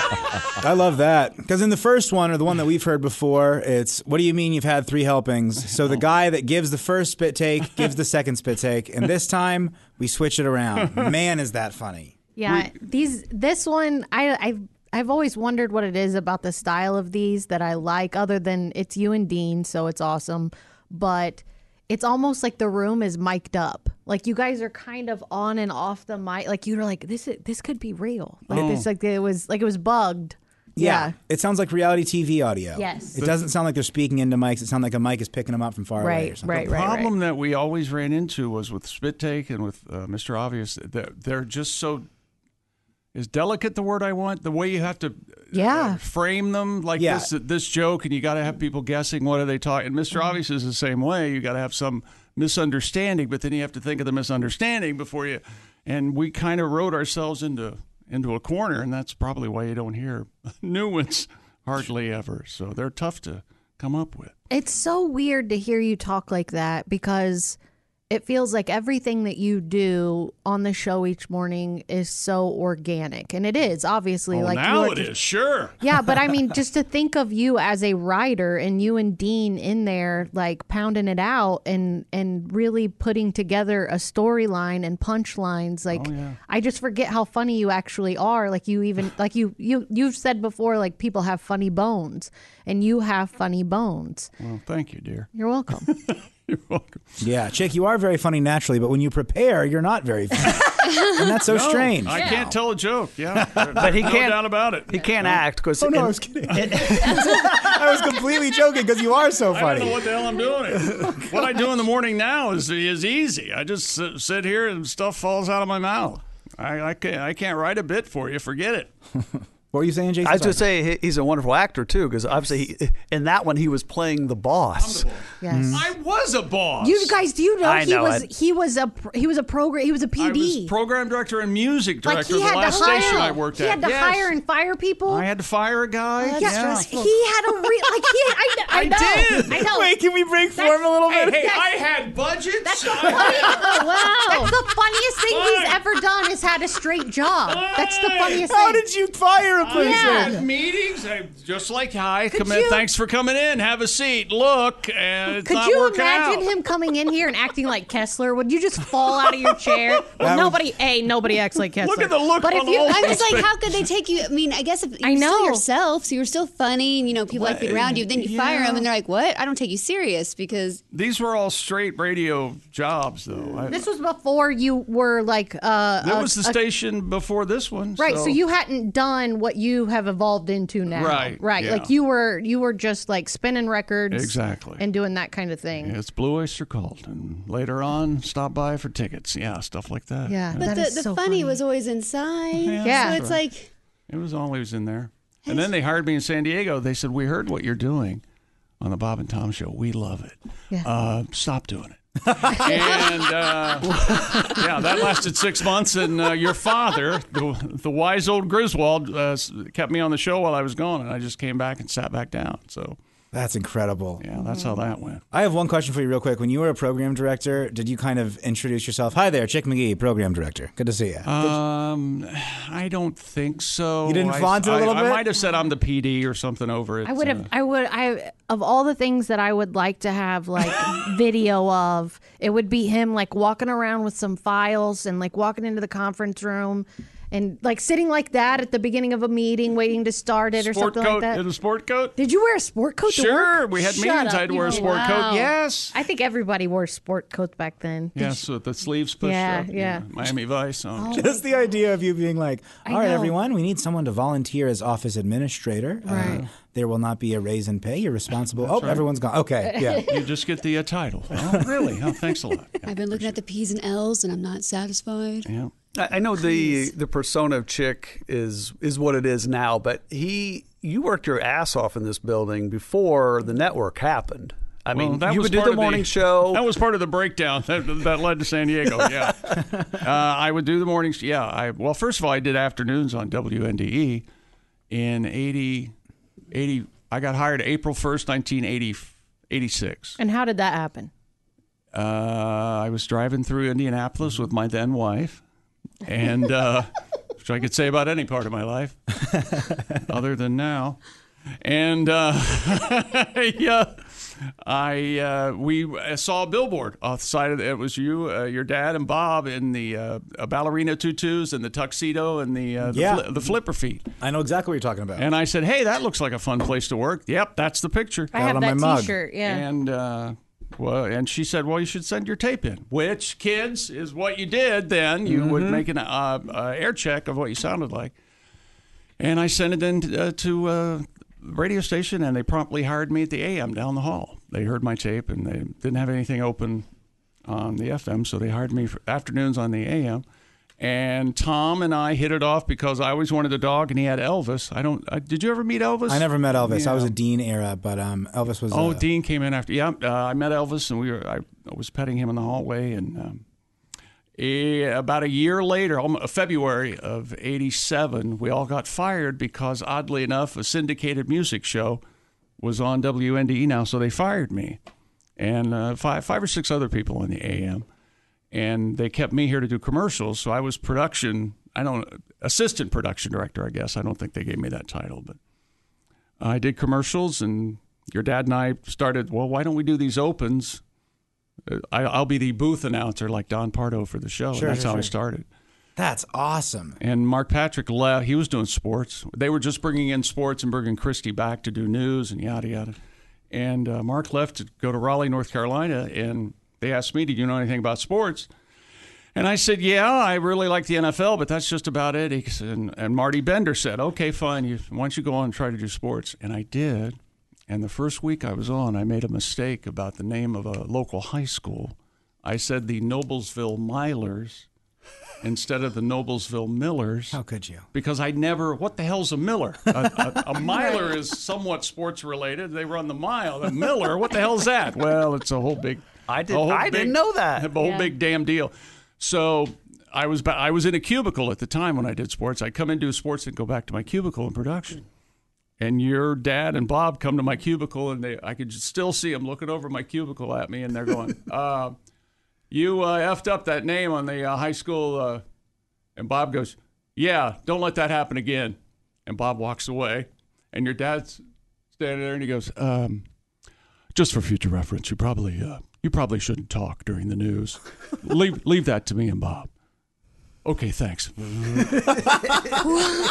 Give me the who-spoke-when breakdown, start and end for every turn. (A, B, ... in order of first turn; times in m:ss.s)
0:00.6-0:12.1 A
0:12.4-0:31.1 B
0:28.5-0:28.9 C
0:30.8-0:36.7 A
0:32.8-0:33.2 B
0:36.0-0:37.1 B
0:36.4-0:42.1 C
0:43.1-1:04.3 C
0:45.5-0:46.0 B
0:47.0-0:47.3 A
1:04.5-1:07.6 B
1:08.1-1:15.2 B
1:14.3-1:15.8 C
1:15.8-1:34.3 B
1:25.9-1:26.4 C
1:34.4-1:35.3 C
1:35.3-1:35.9 B
1:35.8-1:37.0 C
1:37.2-1:42.5 A
1:41.5-1:45.4 C
1:42.1-1:42.5 B
1:43.4-1:43.8 A
1:43.8-1:47.2 D
1:45.8-1:50.0 A
1:49.5-1:58.9 C
1:59.7-2:00.7 A
2:00.2-2:05.1 D
2:04.8-2:07.1 C
2:05.4-2:05.8 B
2:05.5-2:05.8 A
2:06.8-2:10.7 B
2:07.6-2:08.3 D
2:10.2-2:14.3 C
2:12.0-2:15.3 B
2:15.1-2:17.0 C
2:16.2-2:19.9 B
2:18.7-2:19.6 C
2:19.3-2:21.6 A
2:20.6-2:21.7 B
2:21.1-2:24.5 C
2:22.6-2:28.8 B
2:25.2-2:25.8 C
2:27.4-2:28.4 C
2:28.4-2:30.4 A
2:29.6-2:36.5 C
2:29.7-2:30.4 B
2:32.3-2:32.8 B
2:35.4-2:43.4 B
2:39.7-2:40.2 C
2:40.2-2:40.6 A
2:41.8-2:43.8 C
2:42.8-2:50.8 E
2:45.0-2:45.6 B
2:47.3-2:48.8 C
2:50.9-2:53.8 C
2:53.7-2:56.6 B
2:56.0-2:58.4 C
2:58.0-3:06.0 B
3:00.9-3:01.9 C
3:04.1-3:04.8 C
3:05.8-3:10.7 C
3:10.3-3:11.6 B
3:10.6-3:13.7 E
3:12.5-3:13.4 C
3:12.8-3:13.2 B
3:14.1-3:18.2 C
3:18.8-3:33.0 C
3:22.5-3:23.0 B
3:33.3-3:34.2 A
3:34.2-3:35.2 C
3:34.4-3:34.8 B
3:35.3-3:41.6 A
3:41.2-3:47.5 C
3:44.0-3:45.3 A
3:47.0-4:01.4 B
4:00.6-4:02.2 C
4:02.2-4:08.4 B
4:03.0-4:06.0 C
4:04.7-4:05.3 E
4:08.1-4:11.2 C
4:09.2-4:10.1 B
4:11.0-4:11.4 B
4:11.1-4:20.1 A
4:12.8-4:13.3 B
4:16.0-4:16.4 B
4:16.1-4:16.5 C
4:18.6-4:19.0 C
4:19.7-4:20.2 B
4:19.9-4:23.4 C
4:22.8-4:25.5 E
4:25.4-4:25.7 C
4:26.0-4:36.6 D
4:34.9-4:44.2 C
4:44.9-4:45.9 C
4:46.5-4:50.2 C
4:50.2-4:51.1 B
4:51.9-4:55.4 C
4:56.0-4:59.0 C
5:00.0-5:01.0 C
5:01.6-5:14.0 C
5:12.9-5:13.3 A
5:14.2-5:15.3 A
5:15.2-5:18.3 C
5:18.3-5:19.6 B
5:18.3-5:19.1 A
5:19.4-5:28.1 C
5:25.2-5:25.8 D
5:29.2-5:36.8 C
5:37.4-5:40.2 C
5:40.8-5:47.1 C
5:46.1-5:49.0 A
5:48.7-5:53.4 C
5:54.4-6:02.0 C
6:02.6-6:04.8 C
6:05.4-6:07.8 C
6:08.5-6:15.4 C
6:16.4-6:20.8 C
6:21.7-6:25.4 C
6:24.5-6:25.1 A
6:26.0-6:27.0 A
6:27.0-6:33.0 C
6:33.5-6:38.5 C
6:39.3-6:54.7 C
6:55.4-6:57.4 C
6:57.3-6:57.8 A
6:57.9-7:15.0 C
7:00.0-7:00.3 A
7:00.7-7:01.1 B
7:06.3-7:07.7 D
7:07.8-7:08.1 B
7:15.8-7:22.0 C
7:22.7-7:25.4 C
7:26.2-7:31.4 C
7:31.9-7:33.2 C
7:34.1-7:39.7 C
7:40.6-7:42.4 C